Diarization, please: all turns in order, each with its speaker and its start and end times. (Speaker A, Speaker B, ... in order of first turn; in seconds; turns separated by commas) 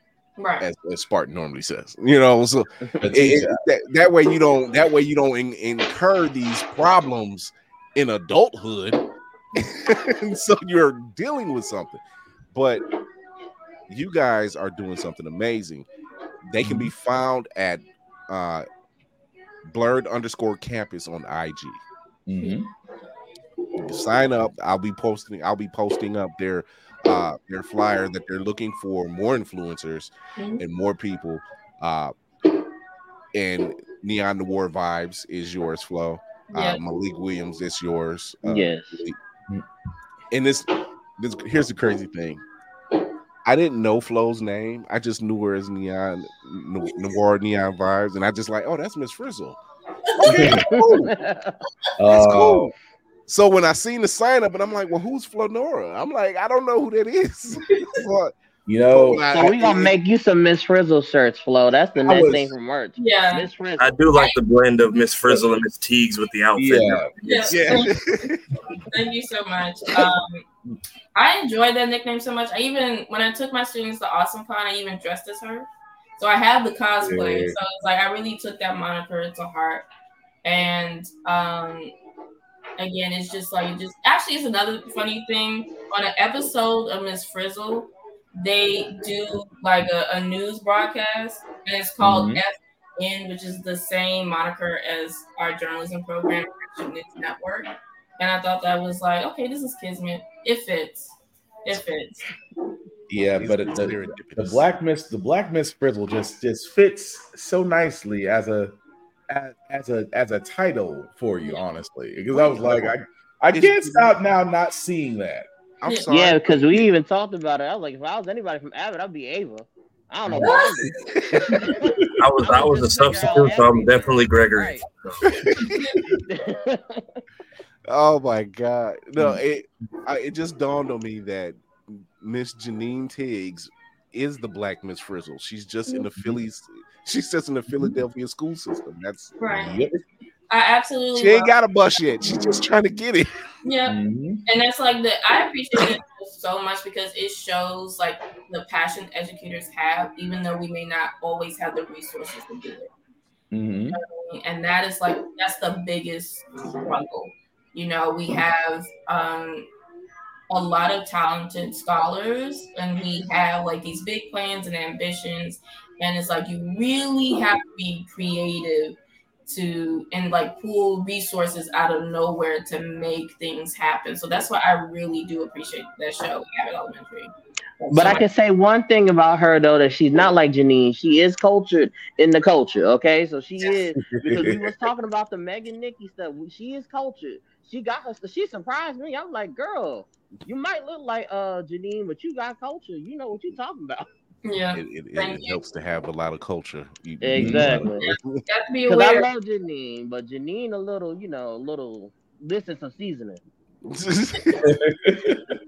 Speaker A: 0.4-0.7, Speaker B: 0.6-9.1, Speaker C: 2.9-3.6, Speaker B: 9.6-12.0, Speaker B: 12.5-12.8, Speaker B: 13.9-15.9, Speaker B: 16.4-18.7, Speaker C: 16.6-16.9, Speaker B: 19.6-21.8, Speaker C: 22.3-22.7, Speaker B: 23.8-32.1, Speaker B: 33.3-39.2, Speaker A: 36.5-36.8, Speaker D: 38.5-39.0, Speaker B: 40.3-42.4, Speaker B: 43.5-49.6, Speaker B: 50.2-51.0, Speaker A: 50.2-51.1, Speaker C: 50.2-50.6, Speaker D: 50.7-51.6, Speaker C: 52.0-52.7, Speaker B: 52.1-52.7, Speaker B: 53.3-58.3, Speaker C: 58.7-59.5, Speaker B: 58.9-59.9, Speaker D: 59.3-63.9, Speaker C: 62.0-62.5, Speaker A: 63.0-63.5, Speaker E: 63.8-67.0, Speaker A: 64.1-64.4, Speaker C: 66.5-67.1, Speaker A: 67.2-67.9, Speaker B: 67.5-68.4, Speaker A: 68.9-70.5, Speaker A: 71.2-79.9, Speaker C: 77.0-77.5, Speaker A: 80.4-81.9, Speaker A: 82.8-102.3, Speaker C: 92.0-92.4, Speaker C: 103.1-108.8, Speaker B: 103.4-104.7, Speaker C: 109.3-115.5, Speaker B: 112.3-113.0, Speaker B: 113.5-114.2, Speaker B: 115.8-116.8, Speaker D: 116.1-120.9, Speaker A: 120.4-120.8, Speaker D: 121.5-124.9, Speaker C: 121.5-122.1, Speaker E: 122.2-125.2, Speaker D: 126.2-127.2, Speaker B: 127.9-139.3, Speaker C: 137.7-138.0, Speaker A: 139.4-139.8, Speaker C: 139.5-140.0, Speaker A: 140.5-141.5, Speaker B: 141.1-143.3, Speaker A: 142.2-142.7, Speaker A: 143.6-152.9, Speaker C: 143.9-144.4, Speaker C: 153.5-154.0, Speaker A: 153.9-159.7, Speaker A: 160.5-178.3, Speaker D: 177.9-194.1, Speaker C: 184.0-184.7, Speaker A: 194.4-195.6, Speaker B: 194.7-198.4, Speaker D: 197.2-198.1, Speaker C: 197.4-197.8, Speaker A: 198.0-199.3, Speaker D: 198.8-203.4, Speaker B: 203.8-204.7, Speaker C: 204.6-205.4